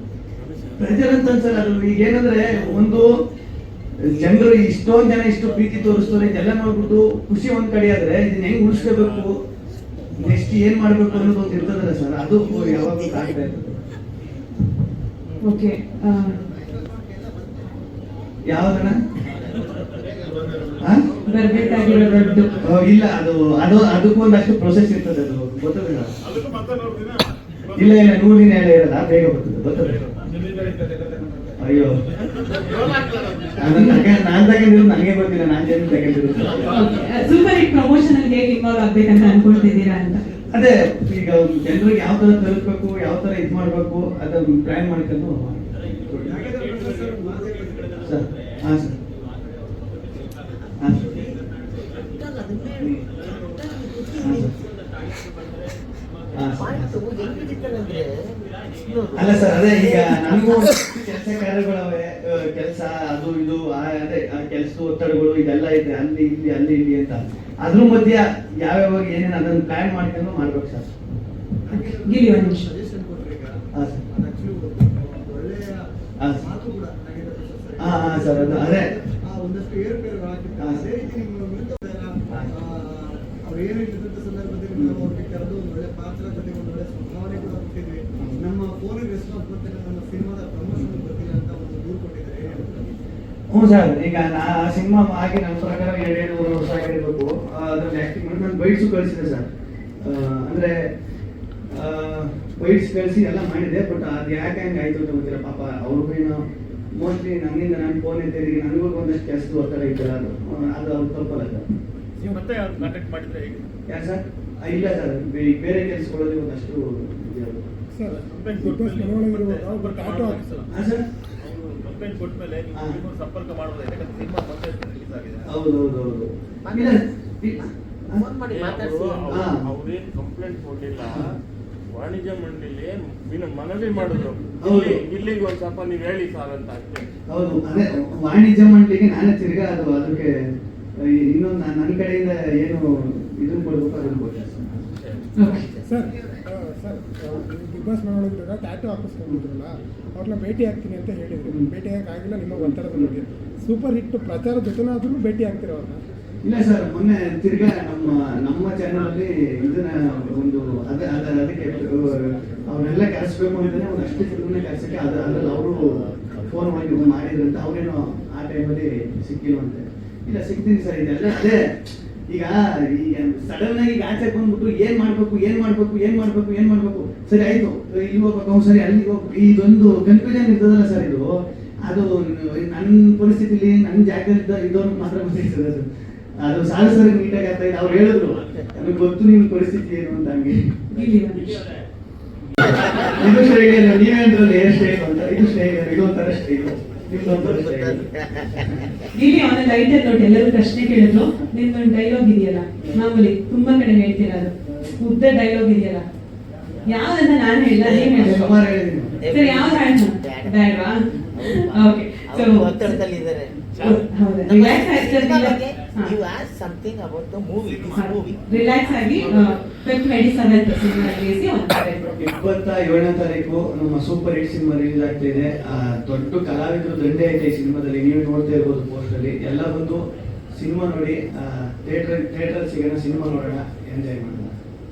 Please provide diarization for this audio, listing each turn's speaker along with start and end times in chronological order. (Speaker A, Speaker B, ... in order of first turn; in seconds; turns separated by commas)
Speaker A: 0.3-1.0, Speaker B: 0.8-3.2, Speaker B: 4.0-9.4, Speaker A: 8.7-9.3, Speaker B: 10.1-13.8, Speaker C: 15.4-16.4, Speaker D: 16.1-18.0, Speaker B: 18.5-19.0, Speaker D: 19.6-20.7, Speaker E: 20.1-20.8, Speaker B: 20.8-21.1, Speaker C: 21.2-22.7, Speaker E: 21.7-22.2, Speaker B: 22.6-26.1, Speaker E: 26.3-27.2, Speaker B: 27.7-30.1, Speaker D: 30.4-31.6, Speaker B: 31.6-32.0, Speaker E: 32.9-33.5, Speaker B: 33.6-36.8, Speaker C: 33.7-34.0, Speaker C: 36.6-40.2, Speaker B: 40.5-46.4, Speaker D: 46.2-48.2, Speaker B: 48.0-49.0, Speaker A: 49.5-50.2, Speaker B: 50.8-51.2, Speaker A: 50.8-53.4, Speaker F: 52.1-54.5, Speaker B: 52.8-53.1, Speaker B: 54.2-54.5, Speaker B: 56.3-57.0, Speaker A: 56.4-56.7, Speaker F: 56.5-58.4, Speaker F: 58.9-60.1, Speaker B: 59.1-70.9, Speaker A: 59.2-59.8, Speaker D: 71.7-73.5, Speaker C: 71.7-72.6, Speaker B: 73.7-74.0, Speaker D: 74.1-75.8, Speaker B: 76.2-76.5, Speaker D: 76.4-93.0, Speaker B: 77.8-78.9, Speaker B: 80.6-80.9, Speaker B: 82.3-82.6, Speaker B: 84.7-85.1, Speaker B: 93.5-99.5, Speaker B: 100.0-100.9, Speaker B: 101.7-106.4, Speaker B: 107.0-111.6, Speaker E: 112.2-113.6, Speaker A: 112.9-113.4, Speaker B: 113.9-117.7, Speaker G: 117.9-120.6, Speaker E: 118.0-120.7, Speaker B: 120.7-121.0, Speaker A: 121.4-122.0, Speaker E: 121.7-125.5, Speaker B: 122.7-123.0, Speaker B: 125.4-128.3, Speaker F: 126.7-127.0, Speaker F: 128.1-129.3, Speaker A: 128.5-131.2, Speaker B: 129.3-129.6, Speaker A: 131.9-137.1, Speaker B: 134.6-135.0, Speaker B: 137.3-140.3, Speaker B: 141.0-144.8, Speaker A: 144.9-145.3, Speaker C: 145.4-145.8, Speaker G: 145.8-156.0, Speaker B: 151.4-151.7, Speaker B: 152.5-153.2, Speaker B: 156.4-171.6, Speaker B: 172.3-181.3, Speaker B: 181.8-185.9, Speaker B: 186.4-190.7, Speaker C: 190.9-191.6, Speaker A: 191.3-191.8, Speaker B: 192.7-198.9, Speaker F: 197.3-198.5, Speaker C: 199.1-206.1, Speaker C: 206.8-208.5, Speaker F: 207.8-208.5, Speaker B: 208.1-209.2, Speaker F: 209.2-210.6, Speaker C: 209.2-213.1, Speaker F: 211.3-213.6, Speaker C: 213.7-216.2, Speaker F: 214.4-218.4, Speaker C: 217.9-222.1, Speaker B: 222.2-230.0, Speaker B: 230.6-234.5